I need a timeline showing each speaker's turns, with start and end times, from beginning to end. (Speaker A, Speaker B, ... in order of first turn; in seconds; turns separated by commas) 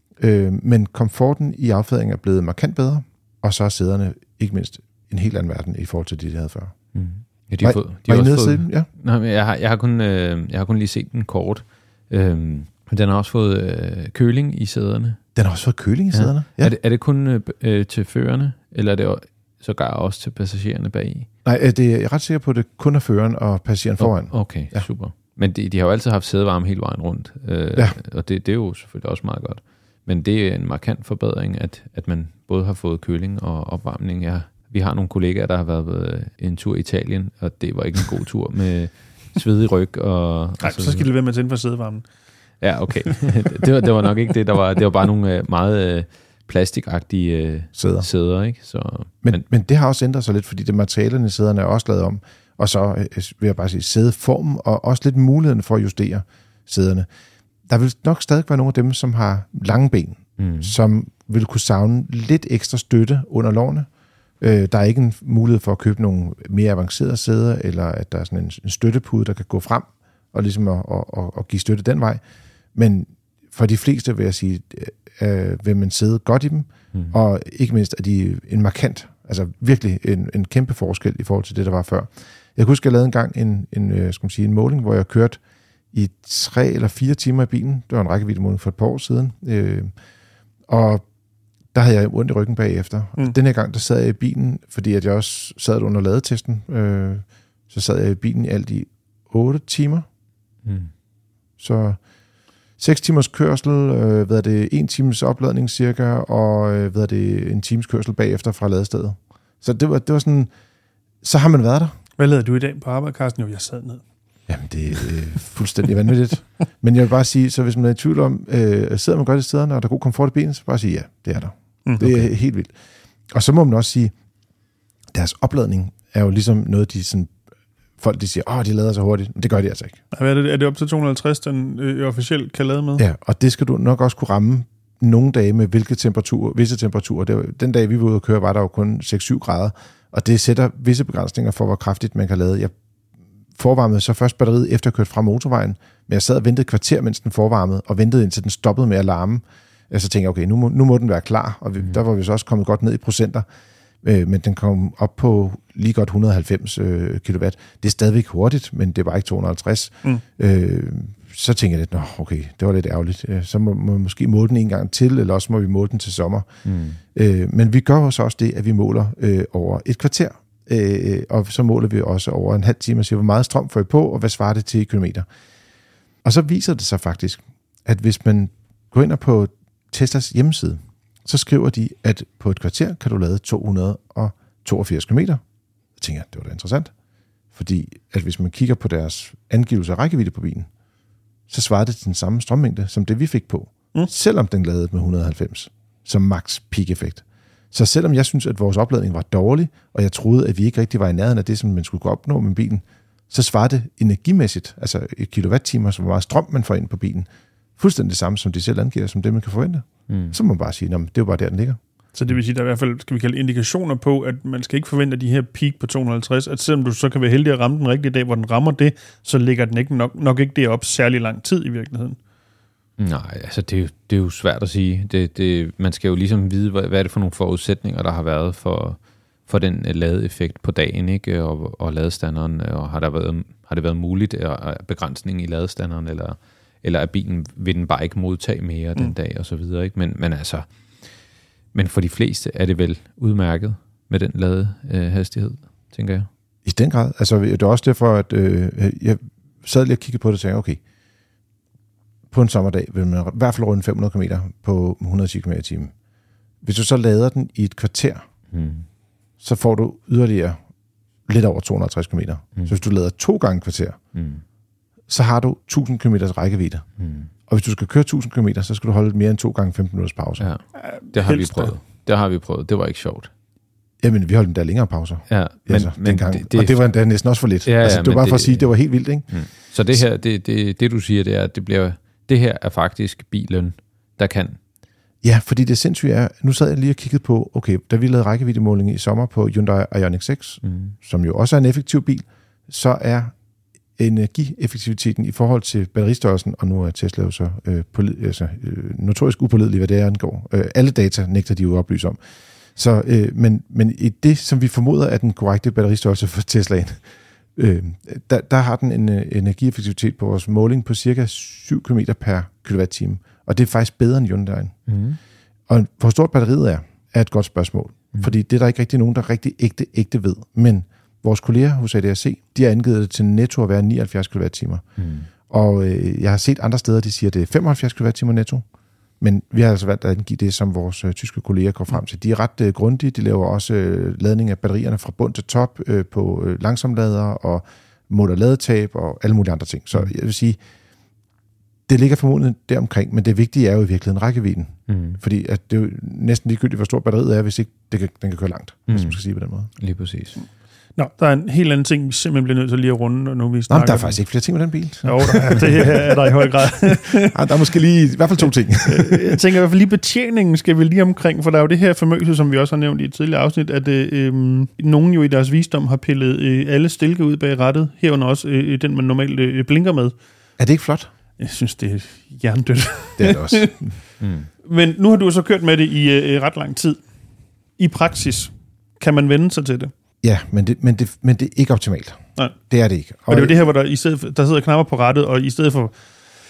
Speaker A: 0.2-6.8, Speaker B: 6.9-15.2, Speaker A: 7.6-8.9, Speaker A: 15.3-16.7, Speaker B: 16.1-21.3, Speaker A: 21.4-24.9, Speaker B: 24.0-41.1, Speaker C: 40.6-42.0, Speaker B: 42.6-49.4, Speaker A: 47.8-48.1, Speaker A: 49.2-57.1, Speaker A: 57.7-63.9, Speaker B: 60.4-60.7, Speaker A: 64.4-72.2, Speaker A: 72.8-85.4, Speaker A: 85.9-89.9, Speaker A: 90.7-91.0, Speaker A: 91.7-100.1, Speaker B: 100.7-100.9, Speaker A: 101.6-102.0, Speaker A: 102.8-110.5, Speaker A: 111.2-111.9, Speaker C: 112.2-114.0, Speaker A: 114.5-122.7, Speaker C: 121.8-122.2, Speaker A: 123.3-124.1, Speaker A: 125.1-127.3, Speaker A: 128.0-130.0, Speaker C: 130.1-133.0, Speaker A: 133.0-142.7, Speaker A: 143.6-153.4, Speaker A: 154.0-166.5, Speaker B: 166.7-167.0, Speaker A: 167.1-175.3, Speaker A: 176.2-185.4, Speaker A: 186.0-186.9, Speaker A: 187.5-190.7, Speaker A: 191.5-207.3, Speaker A: 207.8-211.8, Speaker B: 210.1-210.3, Speaker C: 212.2-222.2, Speaker B: 223.0-240.7, Speaker B: 241.7-246.3, Speaker A: 246.7-250.8, Speaker A: 252.3-255.9, Speaker A: 256.6-258.3, Speaker B: 258.5-258.9, Speaker A: 259.4-260.6, Speaker A: 261.3-264.0, Speaker B: 264.1-264.4, Speaker A: 265.1-266.9, Speaker B: 267.0-267.3, Speaker A: 267.5-270.5, Speaker B: 270.4-273.3, Speaker C: 270.8-271.8, Speaker A: 274.0-279.3, Speaker B: 275.3-276.8, Speaker B: 277.6-278.7, Speaker B: 279.3-284.6, Speaker A: 285.2-293.3, Speaker B: 290.6-290.9, Speaker A: 294.0-302.2, Speaker A: 302.8-307.0, Speaker A: 307.6-314.8, Speaker B: 314.9-315.2, Speaker A: 315.7-324.8, Speaker B: 325.0-325.3, Speaker A: 325.5-328.6, Speaker A: 329.2-340.6, Speaker A: 341.9-349.7, Speaker B: 344.9-345.2, Speaker B: 348.9-349.2, Speaker B: 349.8-350.4, Speaker C: 351.0-354.2, Speaker A: 353.7-359.4, Speaker C: 355.0-357.7, Speaker C: 358.9-370.2, Speaker A: 370.6-371.1, Speaker C: 371.4-373.8, Speaker A: 373.2-374.0, Speaker B: 374.2-374.5, Speaker C: 374.6-377.0, Speaker C: 377.8-379.9, Speaker A: 380.2-383.6, Speaker C: 383.3-386.0